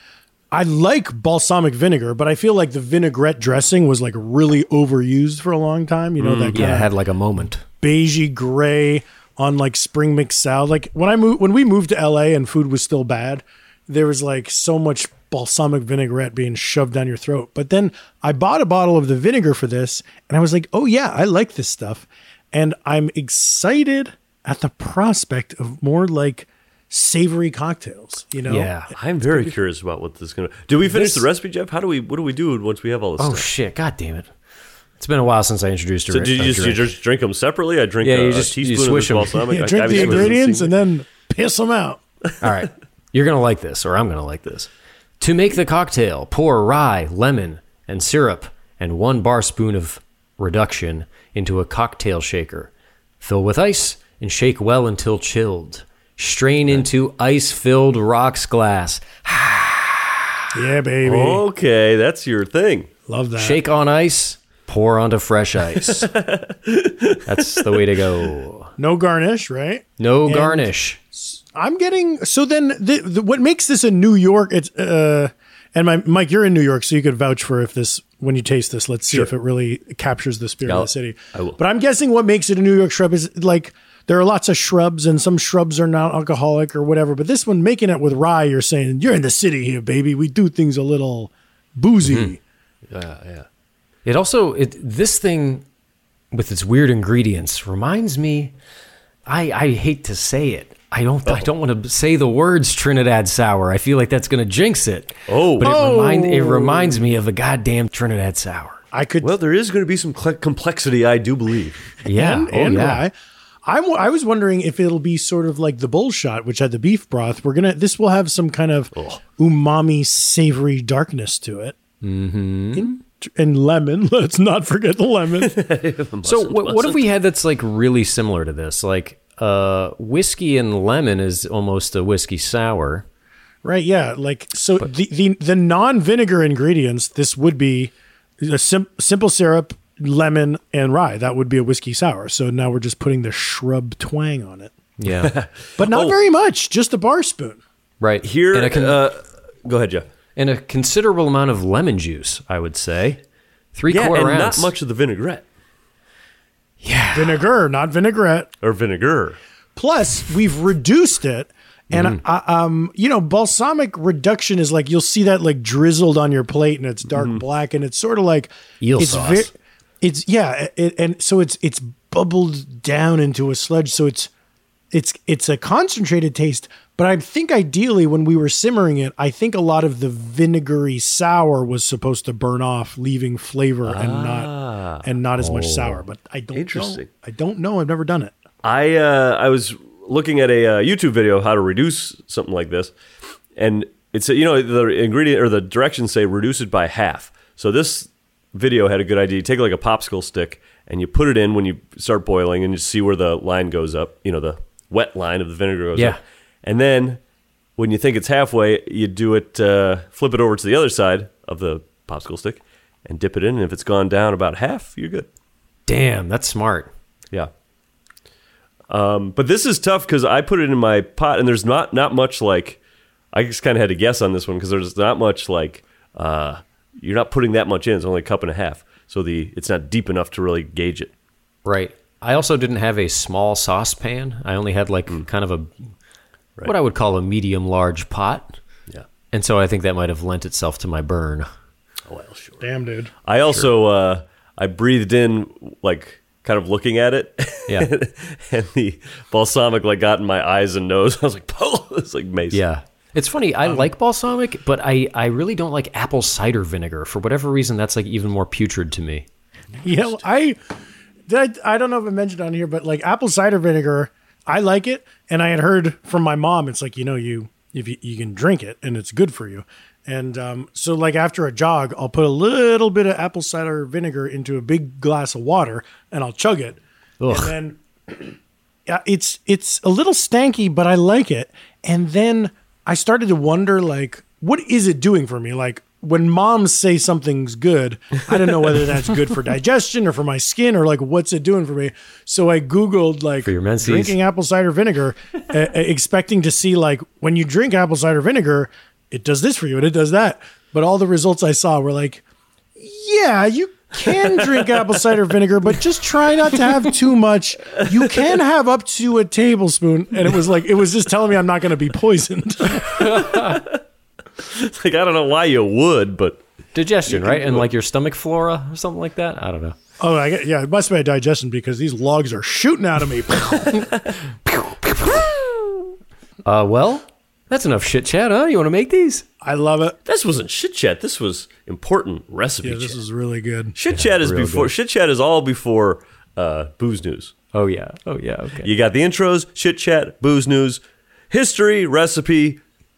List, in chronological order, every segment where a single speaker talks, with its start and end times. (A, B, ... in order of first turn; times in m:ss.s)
0:00.5-0:06.9 A
0:06.2-0:06.6 B
0:06.5-0:07.6 C
0:07.8-0:28.7 A
0:28.5-0:28.9 C
0:29.0-0:33.5 B
0:30.9-0:31.2 C
0:33.2-0:34.3 C
0:35.0-0:36.9 C
0:36.1-0:40.7 B
0:38.0-0:40.4 C
0:39.5-0:42.0 A
0:42.4-1:00.3 C
1:00.5-1:01.4 A
1:01.0-1:02.9 B
1:03.1-1:03.6 A
1:03.4-1:06.1 C
1:05.9-1:07.8 B
1:07.3-1:08.7 C
1:08.8-1:32.4 A
1:10.0-1:11.0 C
1:20.6-1:21.6 B
1:32.0-1:32.4 C
1:32.9-1:33.5 B
1:34.0-1:35.6 C
1:36.3-1:38.5 C
1:39.3-1:48.8 C
1:45.3-1:45.8 B
1:45.6-1:47.0 A
1:48.9-1:49.3 A
1:49.2-1:51.8 B
1:52.0-1:53.0 C
1:52.1-2:01.8 A
1:59.0-1:59.2 B
2:02.0-2:02.9 C
2:02.8-2:05.6 A
2:05.4-2:07.0 B
2:06.2-2:13.1 C
2:13.6-2:24.7 A
2:25.0-2:25.3 C
2:25.2-2:26.2 B
2:25.8-2:27.6 A
2:28.0-2:29.0 C
2:28.2-2:30.1 B
2:30.4-2:33.2 C
2:33.8-2:34.7 C
2:33.9-2:35.4 B
2:36.8-2:37.4 C
2:37.2-2:38.5 A
2:38.6-2:39.4 B
2:39.8-2:54.3 A
2:41.9-2:42.2 C
2:47.1-2:47.4 B
2:48.8-2:49.5 C
2:54.9-3:04.5 A
3:03.8-3:05.1 B
3:05.0-3:08.4 A
3:05.4-3:06.0 C
3:06.5-3:07.1 B
3:08.6-3:12.9 B
3:13.6-3:27.2 B
3:27.8-3:35.3 B
3:35.9-3:36.9 C
3:38.9-3:42.8 B
3:43.3-3:51.1 B
3:51.6-3:55.7 C
3:56.6-3:58.6 C
3:59.3-4:01.5 C
4:02.1-4:02.7 B
4:02.6-4:03.1 A
4:03.2-4:12.6 B
4:12.5-4:19.3 C
4:13.6-4:13.9 A
4:19.8-4:20.6 A
4:21.3-4:38.4 A
4:37.2-4:37.5 C
4:38.9-5:02.2 A
4:53.4-4:54.2 C
5:02.8-5:13.3 A
5:13.1-5:13.6 C
5:13.3-5:13.6 B
5:14.4-5:16.4 B
5:16.7-5:19.8 C
5:17.1-5:17.7 B
5:20.0-5:24.0 A
5:26.4-5:29.2 C
5:29.4-5:30.0 A
5:30.1-5:33.0 B
5:32.6-5:33.7 A
5:33.8-5:37.3 B
5:33.9-5:34.7 C
5:37.5-5:38.7 C
5:38.6-5:42.6 B